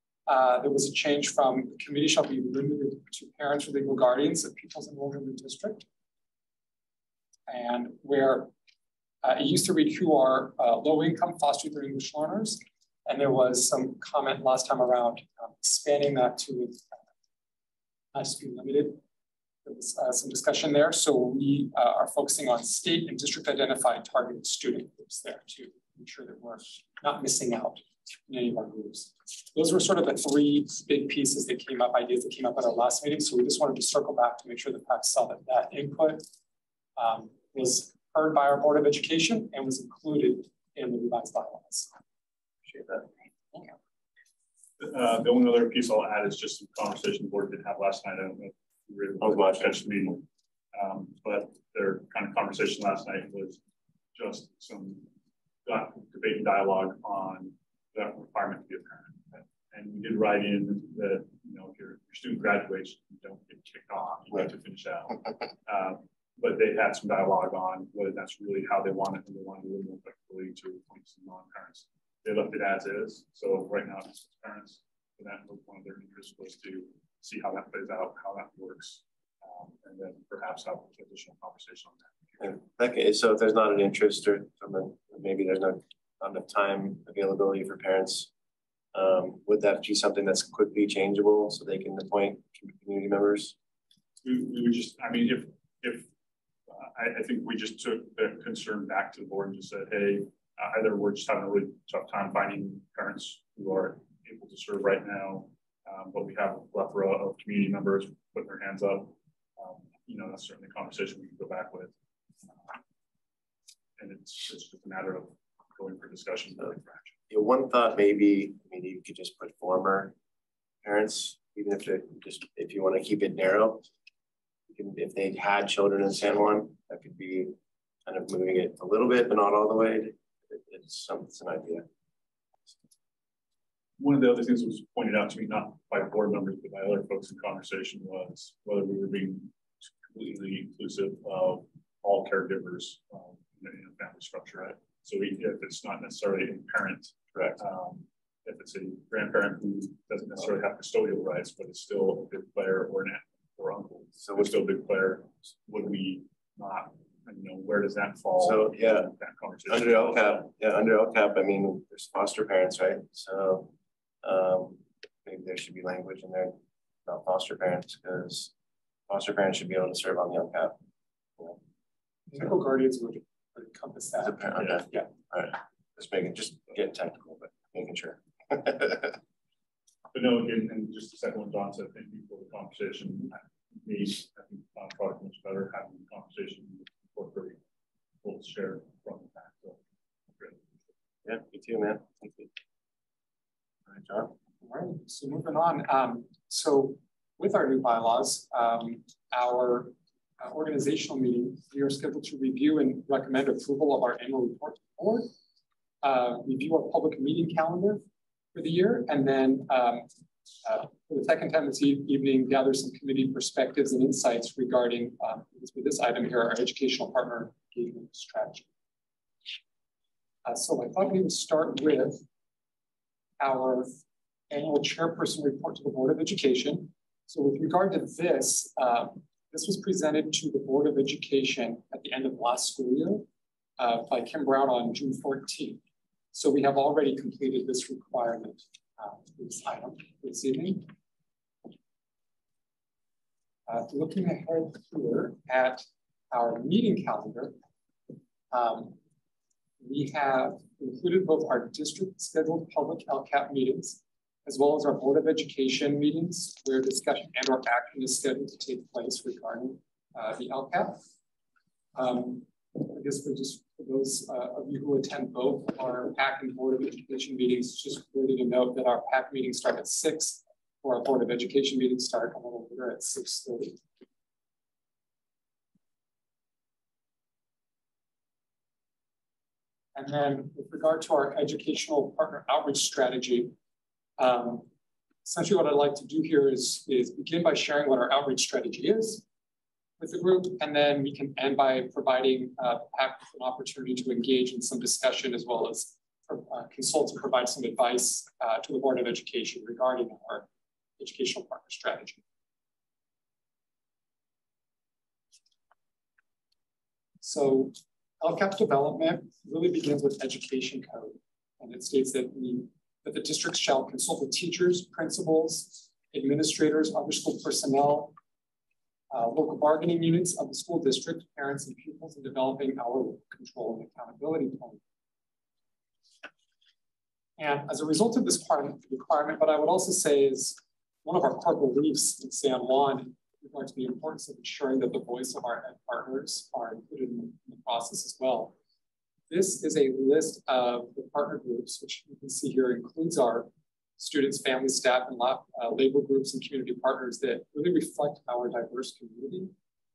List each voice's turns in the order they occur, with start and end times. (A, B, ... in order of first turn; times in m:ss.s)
0:00.3-0:05.9 A
0:07.5-0:08.5 A
0:09.2-0:16.8 A
0:18.1-0:19.0 A
0:19.6-0:36.2 A
0:37.0-0:41.9 A
0:42.6-0:43.1 B
0:44.8-0:53.6 C
0:49.2-0:49.8 B
0:54.1-0:55.1 C
0:55.6-1:22.6 C
1:22.4-1:28.3 B
1:28.9-1:33.5 B
1:34.2-1:36.1 C
1:36.7-1:51.9 C
1:52.5-1:52.8 C
1:54.0-1:57.2 C
1:57.3-2:00.1 B
2:00.8-2:03.9 B
2:04.7-2:11.8 B
2:14.0-2:40.5 C
2:27.3-2:27.6 B
2:34.2-2:34.5 B
2:38.4-2:39.1 B
2:39.7-2:43.7 B
2:44.2-2:48.5 B
2:49.1-2:50.8 B
2:52.3-2:55.1 A
2:54.2-2:59.2 B
3:00.1-3:07.6 C
3:08.2-3:09.8 C
3:10.3-3:10.7 C
3:11.2-3:12.5 B
3:13.9-3:14.4 B
3:14.6-3:25.3 A
3:26.0-3:30.1 A
3:30.6-3:38.7 A
3:40.4-3:42.2 A
3:43.4-3:44.0 A
3:44.5-3:53.3 A
3:53.8-3:55.8 A
3:56.3-4:00.9 A
4:03.7-4:07.5 A
4:08.5-4:09.0 A
4:09.8-4:21.0 A
4:21.9-4:33.8 A
4:39.9-4:43.5 A
4:44.2-4:44.7 A
4:45.2-4:49.2 A
4:50.0-5:00.5 A
5:01.0-5:02.2 A
5:07.2-5:18.1 A
5:19.1-5:24.8 A
5:27.4-5:38.5 A
5:39.3-5:49.5 A